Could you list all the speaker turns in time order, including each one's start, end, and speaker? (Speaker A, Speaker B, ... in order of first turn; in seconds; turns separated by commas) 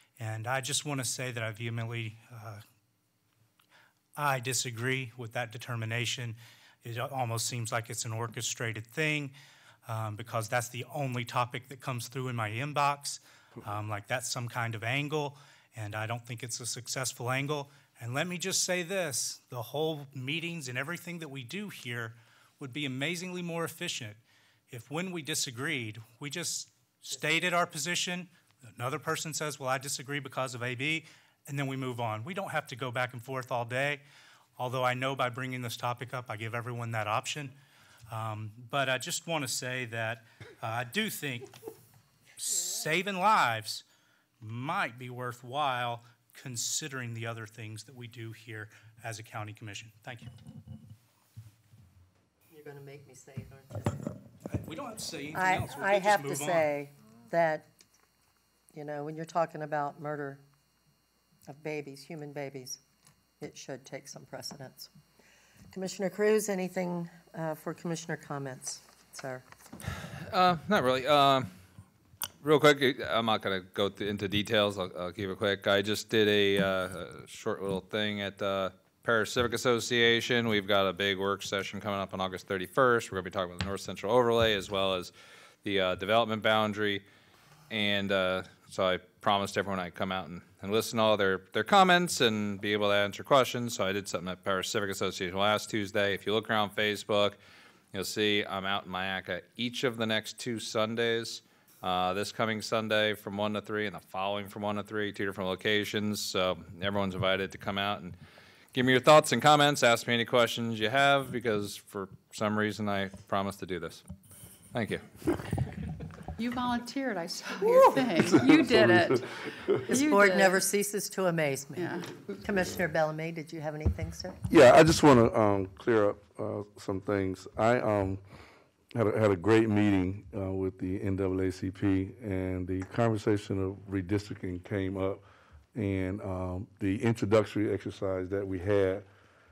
Speaker A: 0.2-2.6, Speaker A: 4.2-9.3, Speaker A: 9.9-34.0, Speaker A: 34.6-37.5, Speaker A: 38.1-41.5, Speaker A: 42.4-43.9, Speaker A: 44.4-50.3, Speaker B: 52.5-54.1, Speaker A: 54.5-56.7, Speaker B: 55.3-57.7, Speaker B: 58.7-60.4, Speaker B: 61.5-62.8, Speaker B: 63.4-64.9, Speaker B: 65.7-69.4, Speaker C: 70.3-71.5, Speaker C: 72.4-85.1, Speaker C: 85.6-87.0, Speaker C: 87.7-97.4, Speaker C: 97.9-108.2, Speaker C: 108.7-114.0, Speaker C: 114.7-115.0, Speaker D: 116.4-119.4, Speaker E: 118.3-119.2, Speaker B: 119.9-124.4, Speaker D: 119.9-120.7, Speaker D: 121.7-122.1, Speaker E: 124.5-128.2, Speaker E: 128.9-135.2, Speaker E: 135.7-139.1